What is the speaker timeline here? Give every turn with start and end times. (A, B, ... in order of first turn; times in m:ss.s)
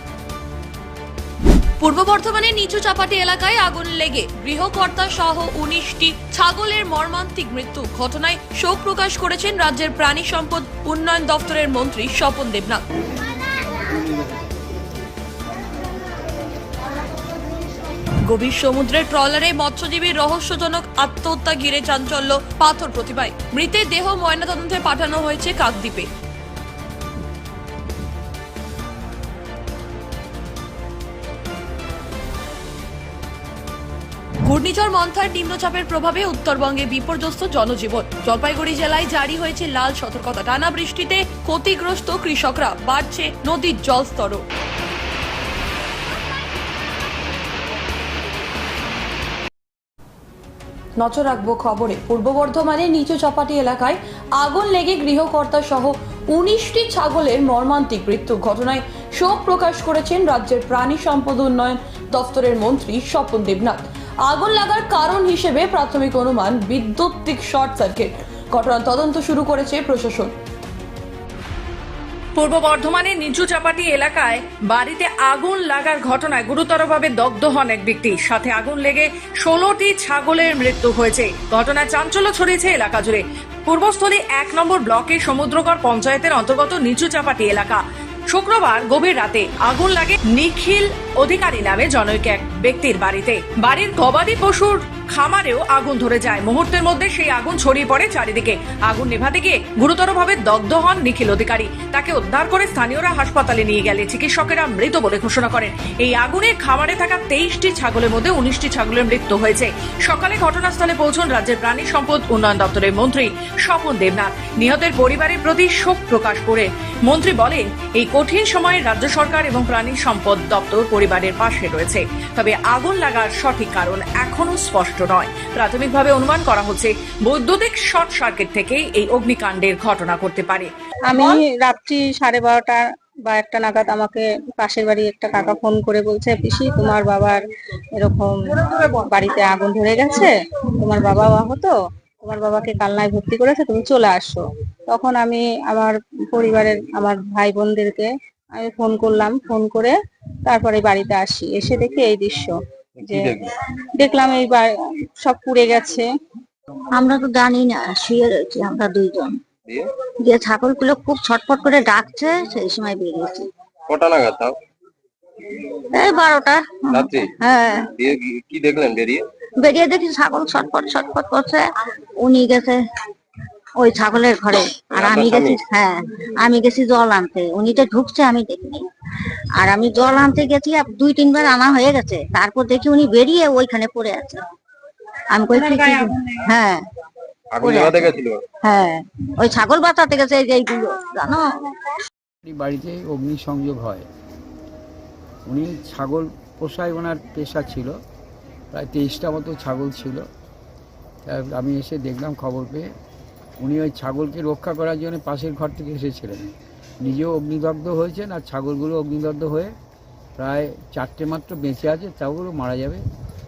0:01.8-0:12.8 A
0:18.2-0:26.1 A
0:34.4-0:44.4 A
0:51.0-1:10.3 A
1:12.4-2:10.7 B
2:11.1-2:17.4 C
2:18.0-2:29.9 C
2:30.4-2:32.5 C
2:33.0-2:33.5 D
2:34.0-2:34.7 C
2:35.2-2:36.1 C
2:36.9-2:39.4 E
2:40.2-2:43.5 E
2:43.9-2:44.5 D
2:45.9-2:47.9 E
2:46.9-2:47.3 D
2:48.0-2:49.2 D
2:49.6-2:52.8 E
2:53.8-2:58.8 E
2:54.9-2:55.6 D
2:59.6-3:04.4 E
3:05.3-3:06.9 E
3:07.6-3:08.4 D
3:07.6-3:11.6 E
3:12.4-3:14.1 F
3:15.4-3:17.9 F
3:18.7-3:20.2 F
3:21.3-3:22.9 F
3:23.6-3:26.4 F
3:27.0-3:29.7 F
3:30.4-3:33.0 F